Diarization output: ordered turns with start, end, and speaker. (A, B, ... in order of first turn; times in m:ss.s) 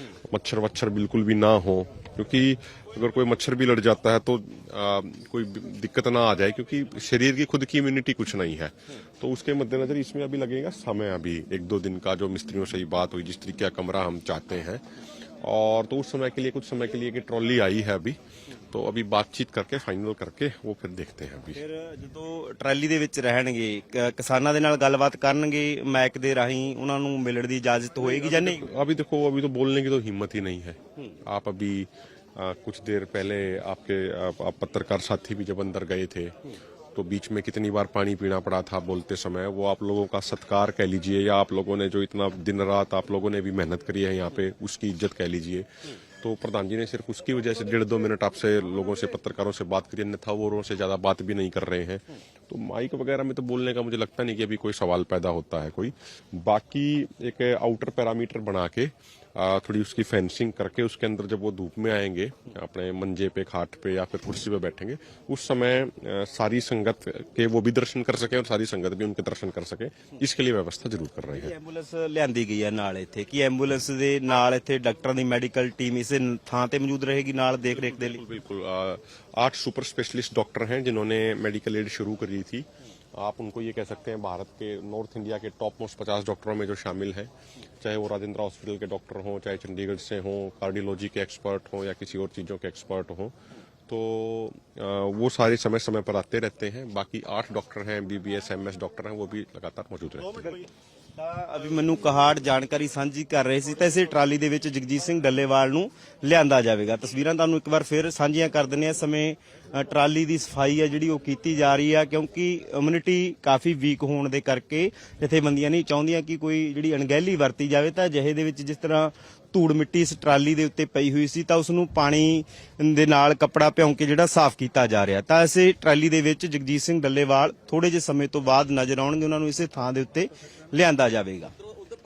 0:00.3-0:14.8 A
0:15.4-0:18.2 A
0:18.7-0:21.6 A
0:21.6-0:28.6 B
0:28.0-0:36.4 A
0:37.0-0:45.7 A
0:46.2-1:11.5 A
1:11.3-1:18.2 B
1:17.6-1:27.3 A
1:27.8-1:33.3 A
1:33.9-1:40.5 A
1:40.2-2:11.5 B